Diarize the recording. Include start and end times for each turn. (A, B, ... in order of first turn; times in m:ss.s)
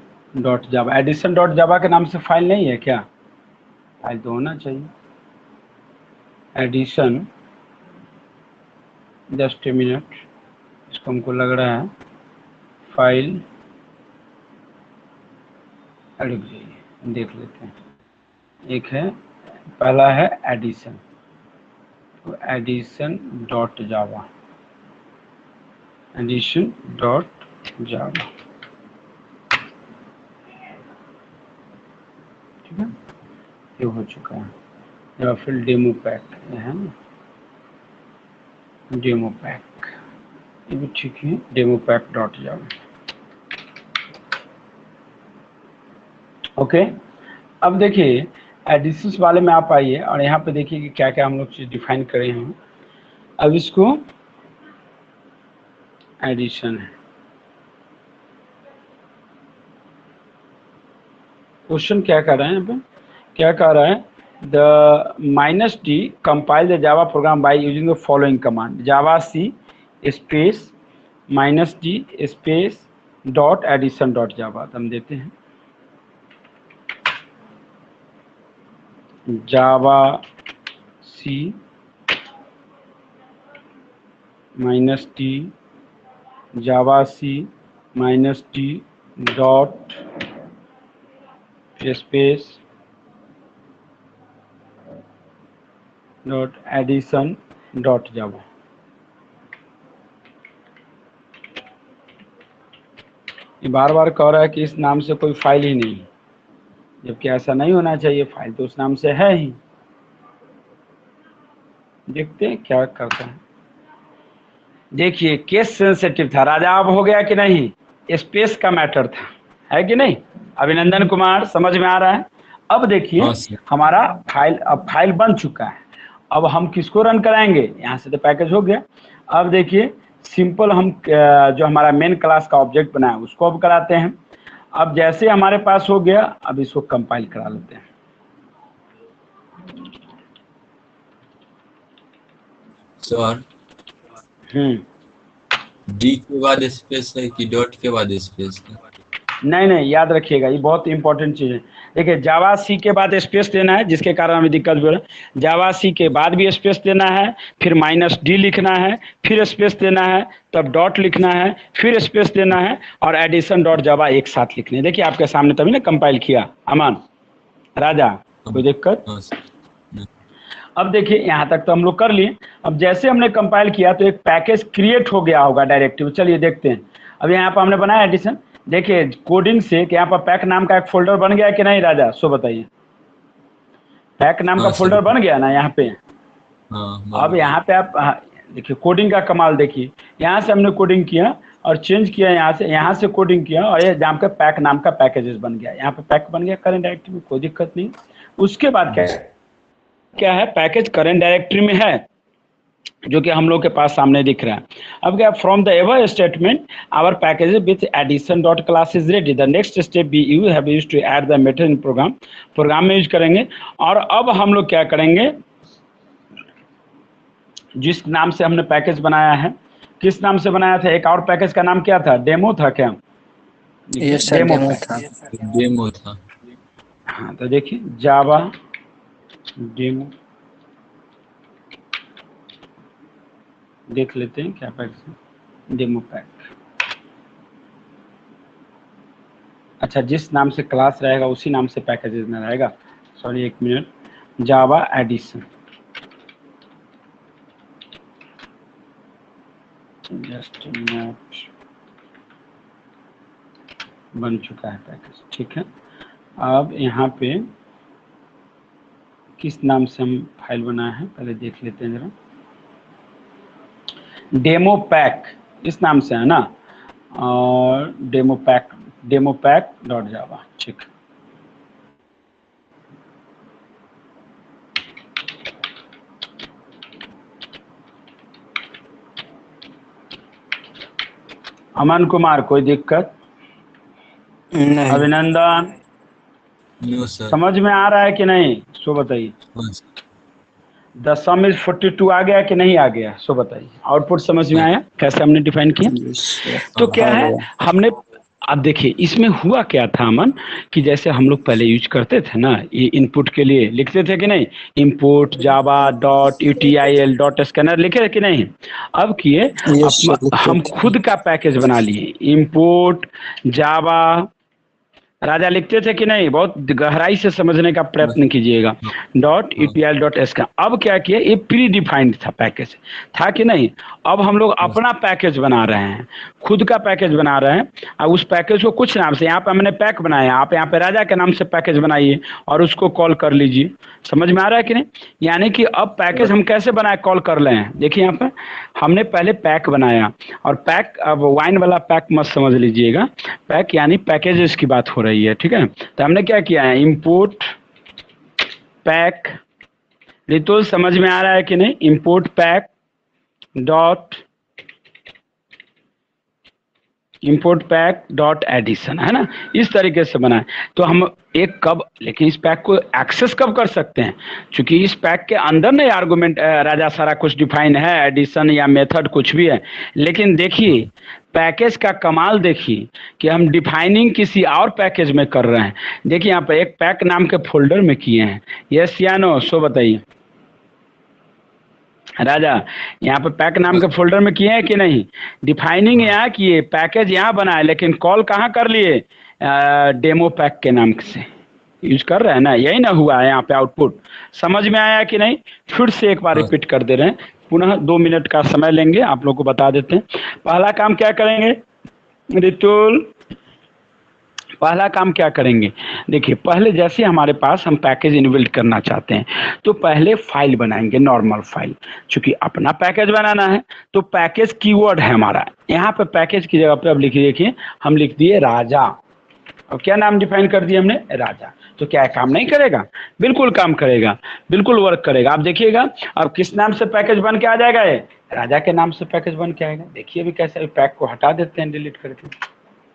0:00.4-0:03.0 A
0:04.0-0:04.9 A
0:06.6-0:07.3 A
0:09.3-0:10.1 A
0:10.9-0:11.9 A
0:12.9-0:13.4 A
0:16.2-0:17.7 A
0:18.7-0:19.1 A
0:19.8-0:21.0 A
0:22.2-0:24.3 A
0:26.1-0:28.3 A
0:32.7-0:32.9 A
0:33.8-0:34.5 A
0:35.2-0:36.9 A
0:38.9-0:39.9 A
0:40.7-0:42.7 A
0:46.6-0:46.9 A
0:47.6-0:52.5 A
0:53.4-0:54.0 A
0:56.2-0:56.9 A
1:01.7-1:02.8 A
1:03.4-1:10.7 A
1:11.3-1:15.3 A
1:19.3-1:20.2 A
1:21.0-1:21.6 A
1:24.6-1:25.5 A
1:26.5-1:30.0 A
1:31.8-1:32.6 A
1:36.2-1:38.4 A
1:43.6-1:46.1 A
1:47.0-1:49.6 A
1:52.1-1:53.4 A
1:54.9-2:14.2 A
2:03.2-2:03.6 B
2:14.7-2:17.8 A
2:23.0-2:23.4 B
2:24.5-2:24.8 A
2:25.9-2:28.8 B
2:29.4-2:47.0 A
2:47.8-2:49.0 A
2:48.4-2:49.3 B
2:50.8-3:02.7 A
3:04.2-3:06.0 A
3:04.6-3:05.1 B
3:06.7-3:07.6 B
3:07.1-3:19.3 A
3:20.1-3:22.0 A
3:23.1-3:35.3 A
3:37.8-3:43.0 A
3:43.9-3:44.9 A
3:44.0-3:45.0 C
3:45.2-3:46.2 B
3:47.1-3:48.5 A
3:49.6-3:50.1 A
3:53.9-3:55.1 A
3:55.7-3:56.5 A
3:59.8-4:03.9 A
4:04.4-4:05.4 A
4:10.1-4:11.5 A
4:14.1-4:15.6 A
4:16.4-4:17.4 A
4:19.4-4:22.1 A
4:24.3-4:26.5 A
4:27.1-4:30.9 A
4:41.8-4:43.1 A
4:44.5-4:45.1 C
4:44.9-4:45.7 A
4:46.8-4:47.4 B
4:47.3-4:49.3 A
4:49.5-4:49.8 B
4:51.0-4:56.0 A
4:55.8-4:57.4 C
4:56.7-4:57.9 A
4:58.5-5:14.3 A
5:09.6-5:10.9 C
5:15.2-5:47.5 A
5:48.8-5:49.4 A
5:50.3-5:52.7 A
5:53.6-5:54.2 A
5:57.2-6:20.0 A
6:22.2-6:31.3 A
6:31.8-6:41.6 A
6:42.3-6:43.1 A
6:44.6-6:59.0 A
6:59.7-7:12.3 A